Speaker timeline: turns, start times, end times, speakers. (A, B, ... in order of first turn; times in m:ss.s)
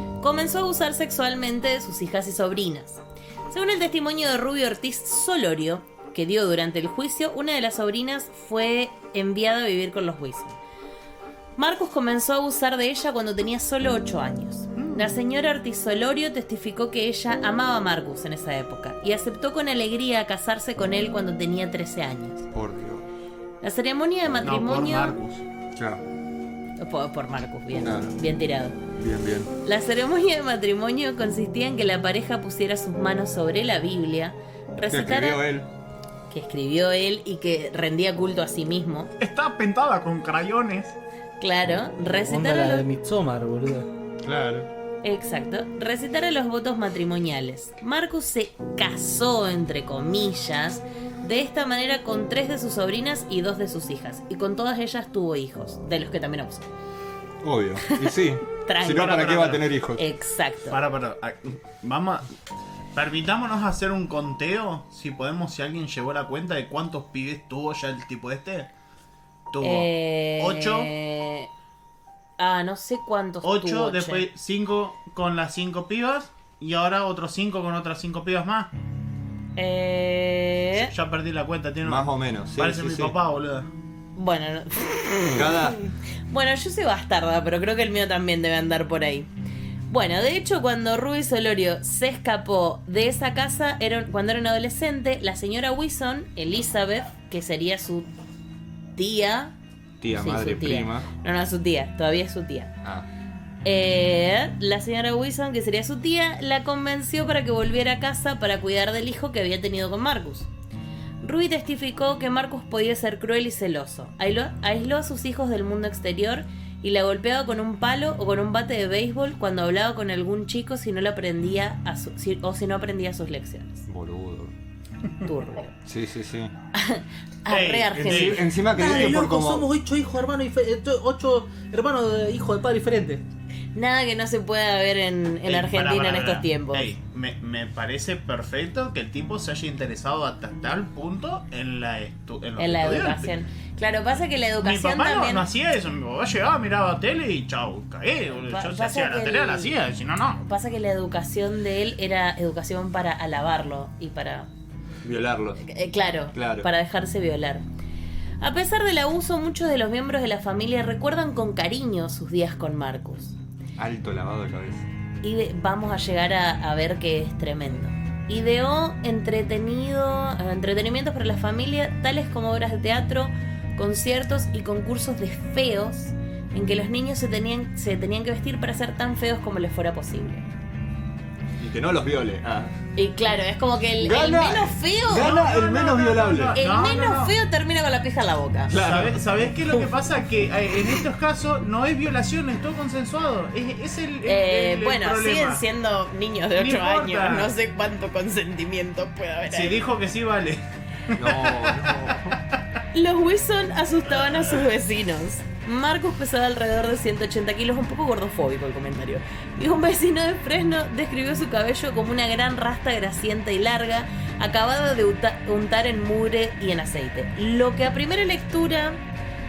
0:00.2-0:10.6 A
0:11.6-0:22.5 A
0:14.8-0:15.2 B
0:22.5-0:23.1 C
0:23.6-0:25.2 A
0:24.4-0:25.4 B
0:25.8-0:26.0 C
0:26.8-0:28.8 A
0:27.8-0:28.1 C
0:29.0-0:29.5 C
0:29.6-0:35.4 A
0:34.9-0:35.7 C
0:36.3-0:39.1 A
0:39.2-0:41.0 B
0:41.4-0:42.8 A
0:42.2-0:43.9 D
0:44.2-0:44.7 C
0:45.0-0:56.7 A
0:57.4-1:00.0 C
0:57.8-0:59.4 A
0:58.9-0:59.6 B
1:00.0-1:00.8 A
1:00.7-1:02.3 B
1:03.0-1:08.7 B
1:09.5-1:10.9 B
1:09.6-1:11.5 A
1:12.4-1:14.3 A
1:13.4-1:18.7 B
1:19.6-1:20.9 A
1:20.8-1:23.7 B
1:21.8-1:23.2 C
1:24.2-1:25.8 A
1:25.3-1:25.8 C
1:26.3-1:29.3 A
1:29.9-1:38.1 A
1:39.0-1:39.5 A
1:40.0-1:41.1 C
1:40.2-1:42.8 A
1:43.6-1:50.5 A
1:51.2-2:03.8 A
2:03.9-2:04.5 C
2:05.2-2:05.7 A
2:05.8-2:06.5 C
2:06.7-2:08.6 A
2:07.5-2:09.2 B
2:08.0-2:09.7 C
2:08.7-2:13.2 D
2:13.8-2:16.9 A
2:15.5-2:23.3 B
2:22.6-2:25.5 A
2:24.6-2:30.4 B
2:28.4-2:29.7 A
2:30.4-2:34.5 A
2:35.0-2:35.6 C
2:35.6-2:37.6 A
2:36.3-2:36.7 C
2:38.4-2:43.4 A
2:43.8-2:44.9 C
2:45.2-3:00.4 A
3:01.6-3:02.7 C
3:03.0-3:05.4 A
3:04.0-3:06.6 C
3:05.1-3:07.3 B
3:06.6-3:08.8 A
3:08.7-3:09.8 C
3:08.8-3:15.6 B
3:14.2-3:19.8 A
3:16.6-3:17.5 B
3:19.5-3:22.1 B
3:21.1-3:22.4 C
3:22.9-3:39.0 A